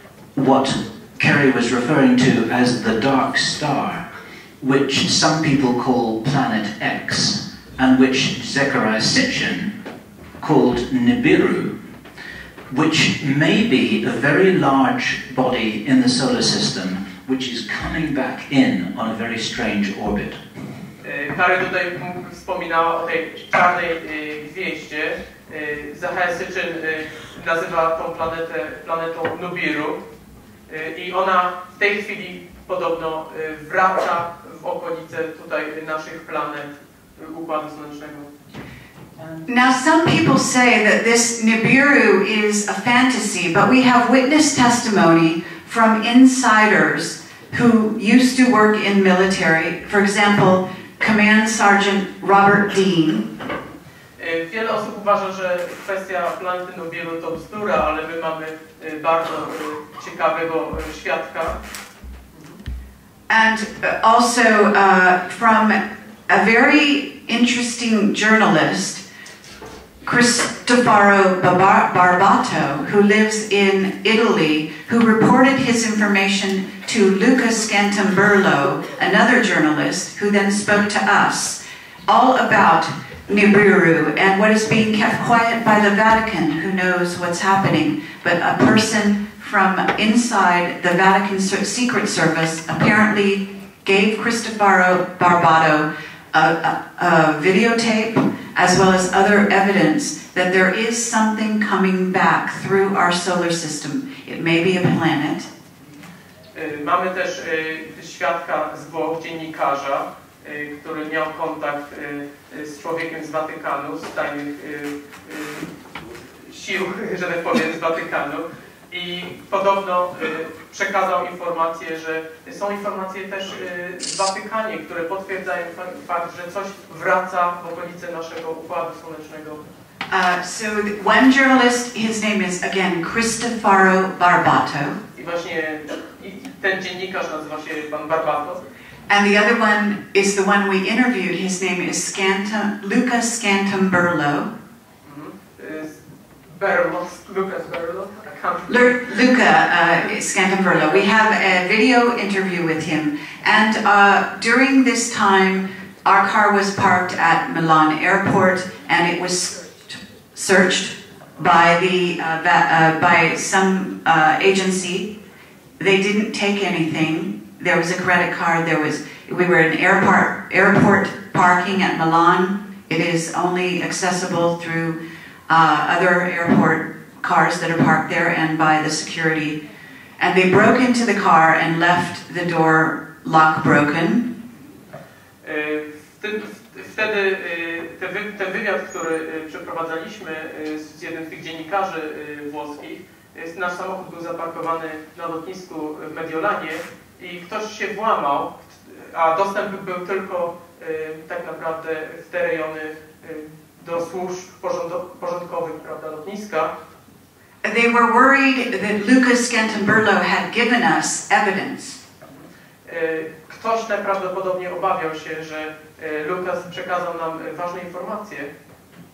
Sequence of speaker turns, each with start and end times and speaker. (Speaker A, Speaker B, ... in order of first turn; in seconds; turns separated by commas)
Speaker A: 0.3-4.0, Speaker A: 4.6-9.7, Speaker A: 10.4-11.7, Speaker A: 12.7-20.4, Speaker B: 21.0-30.0, Speaker B: 30.7-38.3, Speaker C: 39.4-53.3, Speaker B: 54.2-61.6, Speaker C: 63.3-65.8, Speaker C: 66.3-69.0, Speaker C: 70.0-105.5, Speaker B: 106.5-115.8, Speaker B: 116.3-129.6, Speaker C: 130.1-135.0, Speaker B: 135.1-138.6, Speaker C: 139.1-144.5, Speaker B: 145.0-150.0, Speaker C: 148.7-165.1, Speaker B: 150.7-151.1, Speaker C: 165.8-179.6, Speaker C: 180.2-184.3, Speaker B: 185.4-206.7, Speaker C: 207.6-212.0, Speaker B: 212.8-218.5